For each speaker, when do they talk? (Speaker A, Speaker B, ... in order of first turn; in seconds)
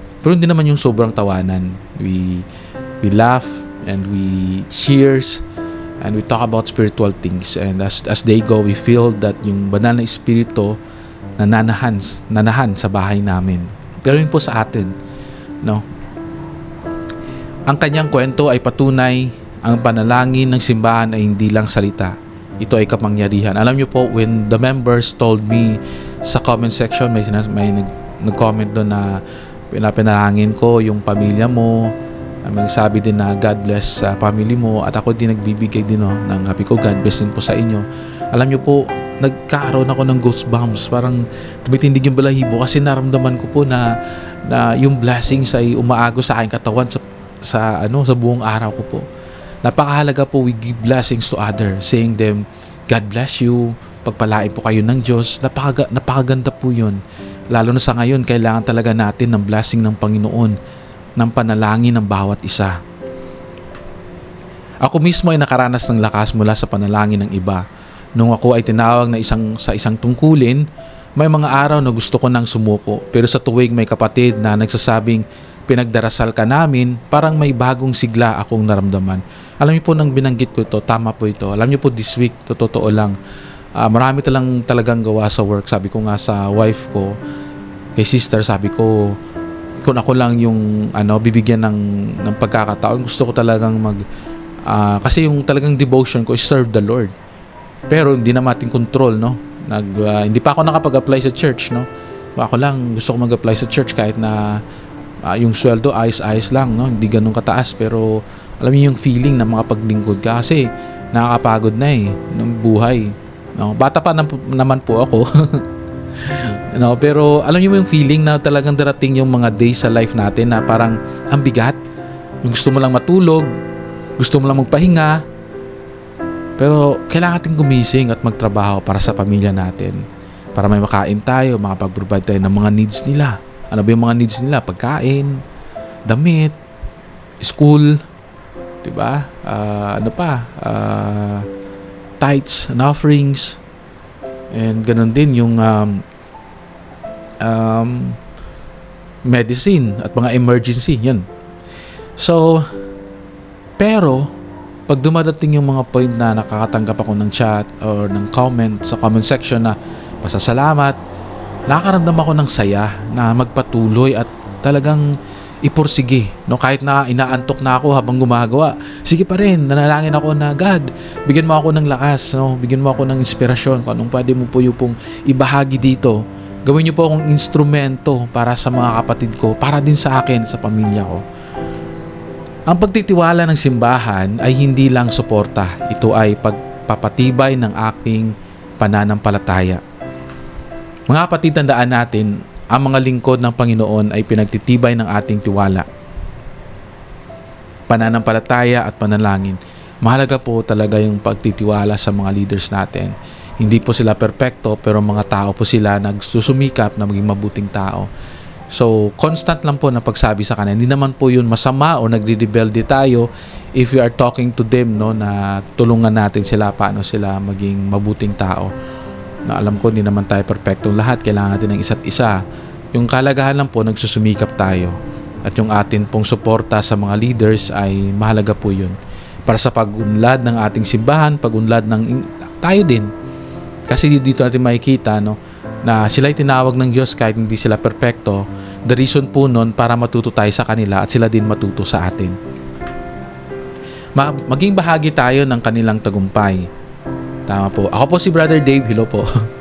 Speaker A: 0.2-2.5, 3.0-5.4, 6.0-10.8, 11.4-14.9, 17.7-31.9, 32.4-43.9, 44.5-49.1, 49.6-57.0, 57.5-60.5, 61.2-62.8, 64.8-67.6, 68.2-83.1, 83.8-87.2, 88.0-89.2, 89.8-94.0, 94.6-97.1, 97.9-104.6, 105.2-115.6, 116.2-121.8, 122.4-123.5, 124.2-125.2, 126.6-135.4, 136.1-136.6, 137.4-138.0, 138.8-141.5, 142.2-143.6, 144.5-146.0, 147.4-148.2, 149.2-151.2, 152.2-152.7, 153.8-154.3, 154.9-161.0, 161.7-165.1, 165.6-181.2, 182.7-189.8, 191.1-195.9, 197.9-208.1, 208.7-218.7, 219.4-222.4, 222.9-233.1, 233.9-242.3, 244.2-246.7, 247.5-249.3